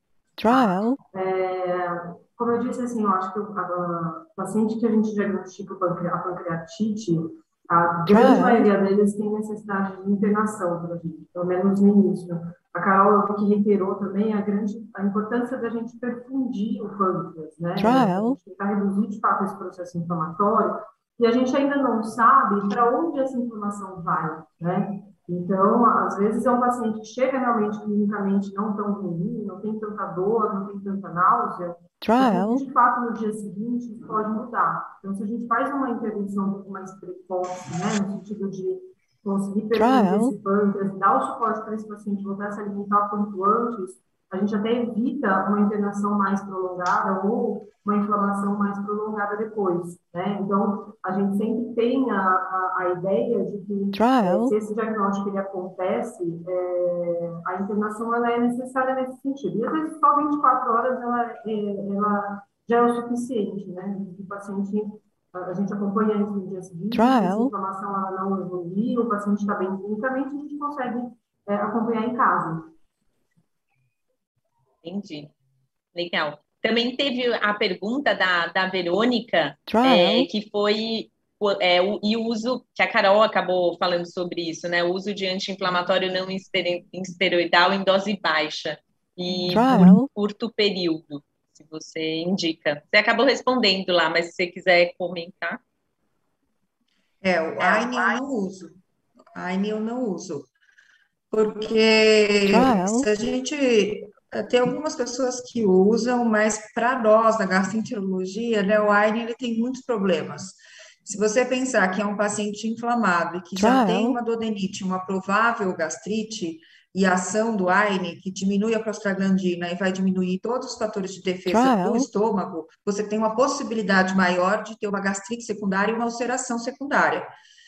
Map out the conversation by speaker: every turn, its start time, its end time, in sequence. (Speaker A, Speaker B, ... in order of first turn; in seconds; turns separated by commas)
Speaker A: 0.4-1.0, Speaker B: 1.1-72.7, Speaker A: 8.1-8.7, Speaker A: 17.8-18.4, Speaker A: 32.0-32.6, Speaker A: 39.7-40.4, Speaker A: 53.9-54.5, Speaker A: 66.9-67.5, Speaker C: 74.8-75.3, Speaker C: 75.9-95.6, Speaker A: 79.7-80.3, Speaker A: 89.5-90.1, Speaker D: 97.2-98.8, Speaker C: 97.6-98.2, Speaker D: 99.3-100.5, Speaker D: 101.3-127.3, Speaker A: 102.5-103.1, Speaker A: 113.6-114.2, Speaker A: 121.5-122.1